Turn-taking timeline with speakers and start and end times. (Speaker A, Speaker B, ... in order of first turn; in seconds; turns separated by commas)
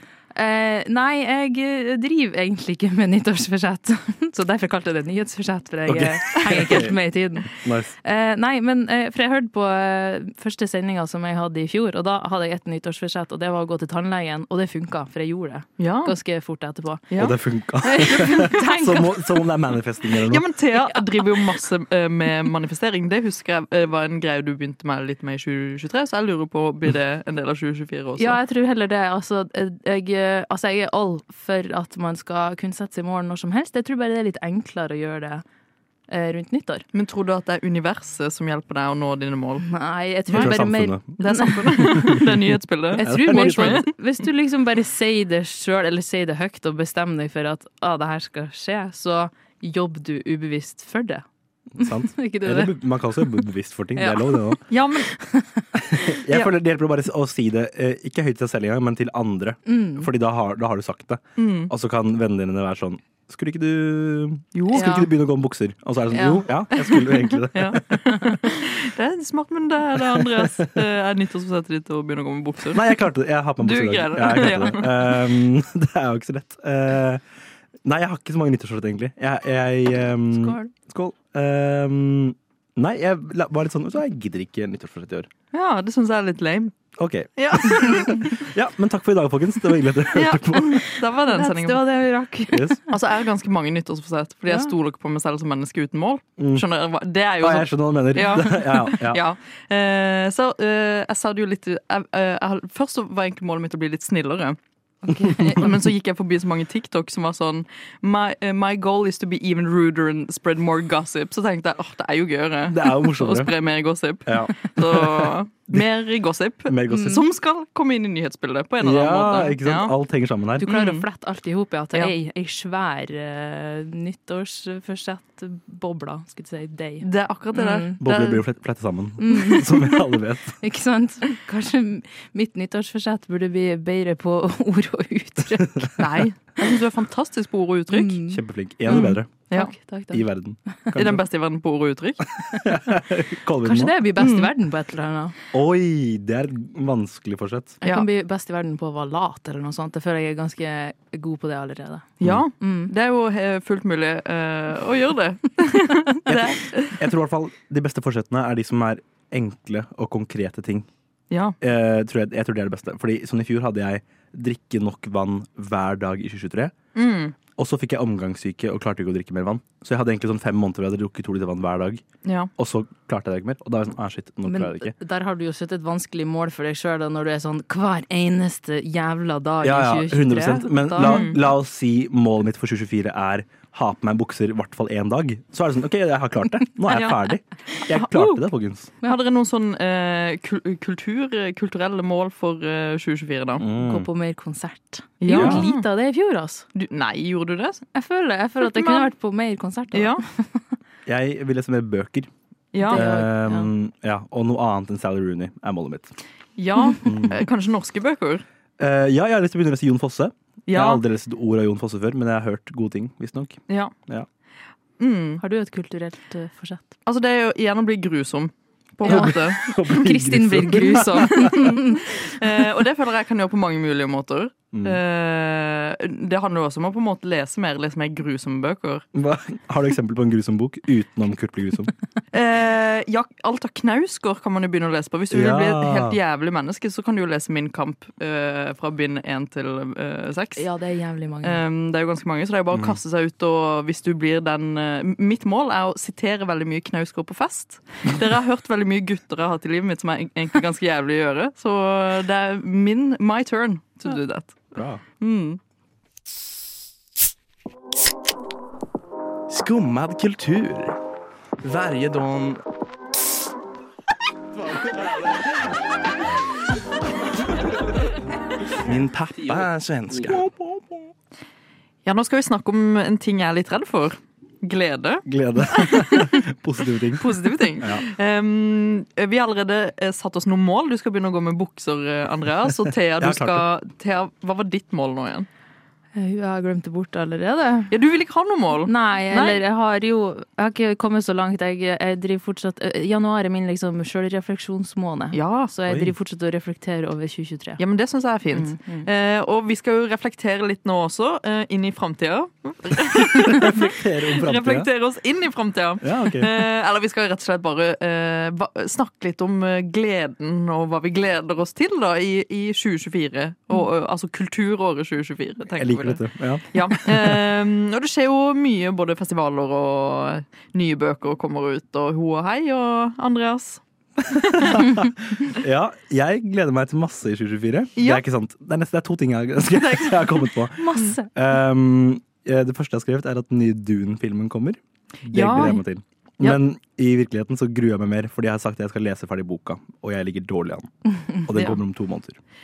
Speaker A: 0.3-17.0, Speaker B: 5.9-7.9, Speaker C: 15.8-16.1, Speaker C: 17.1-17.4, Speaker B: 17.2-20.4, Speaker A: 17.8-19.2, Speaker C: 18.0-19.0, Speaker C: 20.2-28.4, Speaker A: 20.8-21.3, Speaker A: 28.2-35.4, Speaker A: 36.1-36.8, Speaker C: 36.9-39.7, Speaker A: 39.6-42.2, Speaker B: 40.3-41.2, Speaker C: 41.2-43.9, Speaker B: 41.7-43.8, Speaker A: 43.0-51.2, Speaker B: 51.8-54.6, Speaker A: 51.8-53.3, Speaker A: 54.0-54.6, Speaker C: 54.7-55.1, Speaker A: 55.1-55.6, Speaker B: 55.7-67.8, Speaker A: 59.6-60.1, Speaker C: 61.4-61.7, Speaker C: 64.5-64.9, Speaker A: 64.7-65.1, Speaker A: 66.1-66.4, Speaker C: 66.9-72.9, Speaker B: 70.0-70.7, Speaker B: 72.7-77.2, Speaker C: 73.6-75.3, Speaker B: 77.8-85.3, Speaker A: 80.3-80.7, Speaker C: 85.5-86.7, Speaker B: 87.0-90.8, Speaker C: 87.4-88.5, Speaker C: 90.1-91.8, Speaker A: 91.2-92.8, Speaker B: 92.5-92.8, Speaker C: 92.9-104.6, Speaker B: 96.4-96.6, Speaker B: 97.4-99.2, Speaker A: 105.0-105.7, Speaker B: 105.3-105.7, Speaker C: 105.3-119.9, Speaker B: 112.7-113.5, Speaker B: 114.2-115.8, Speaker B: 116.7-117.2, Speaker A: 116.9-117.2, Speaker B: 118.8-120.7, Speaker A: 120.6-128.0, Speaker C: 120.6-121.0, Speaker C: 127.0-128.4, Speaker B: 128.0-130.6, Speaker A: 129.2-129.9, Speaker A: 130.6-135.9, Speaker C: 136.0-138.2, Speaker A: 137.9-138.4, Speaker B: 138.3-139.4, Speaker C: 138.9-139.7, Speaker A: 138.9-140.2, Speaker B: 140.1-141.2, Speaker C: 140.9-142.2, Speaker B: 142.4-143.9, Speaker A: 143.6-145.3, Speaker C: 144.2-144.5, Speaker B: 145.5-147.8, Speaker A: 147.8-152.9, Speaker C: 152.2-157.0, Speaker B: 156.2-160.9, Speaker C: 161.3-161.6, Speaker B: 161.6-166.7, Speaker C: 166.9-167.3, Speaker B: 167.6-172.0, Speaker C: 172.2-172.5, Speaker B: 172.6-174.9, Speaker A: 174.5-181.3, Speaker B: 179.6-188.9, Speaker C: 181.0-181.4, Speaker C: 186.9-187.3, Speaker C: 187.9-188.4, Speaker C: 189.0-193.7, Speaker B: 193.6-194.1, Speaker A: 193.7-196.7, Speaker C: 195.2-195.9, Speaker B: 195.3-195.6, Speaker C: 196.7-197.9, Speaker A: 197.9-200.6, Speaker C: 198.6-199.1, Speaker C: 199.9-200.2, Speaker B: 201.1-202.3, Speaker C: 202.7-203.1, Speaker A: 202.8-203.7, Speaker B: 202.9-206.1, Speaker C: 206.6-208.4, Speaker B: 207.0-207.4, Speaker B: 208.8-214.3, Speaker C: 210.7-211.0, Speaker C: 215.0-215.4, Speaker A: 215.4-216.9, Speaker C: 217.1-219.6, Speaker B: 219.0-221.7, Speaker A: 219.1-222.1, Speaker C: 221.3-229.0, Speaker B: 224.7-225.0, Speaker B: 229.1-231.9, Speaker C: 232.3-240.7, Speaker B: 235.3-236.2, Speaker A: 240.6-241.6, Speaker C: 241.4-255.6, Speaker B: 254.7-255.0, Speaker D: 259.5-260.9, Speaker D: 261.6-262.6, Speaker D: 268.8-270.4, Speaker B: 270.1-270.9, Speaker C: 272.0-276.4, Speaker B: 275.2-278.1, Speaker C: 277.2-285.5, Speaker B: 283.2-283.6, Speaker A: 286.1-287.9, Speaker C: 287.9-289.6, Speaker A: 288.9-297.8, Speaker C: 295.3-295.7, Speaker B: 295.9-296.1, Speaker C: 297.8-323.8, Speaker A: 298.5-299.1, Speaker B: 303.3-304.9, Speaker B: 306.0-306.6, Speaker B: 315.8-317.4, Speaker B: 324.2-342.4, Speaker C: 324.3-324.9, Speaker C: 327.9-328.2, Speaker A: 330.8-331.3, Speaker C: 335.3-335.8, Speaker C: 341.5-341.8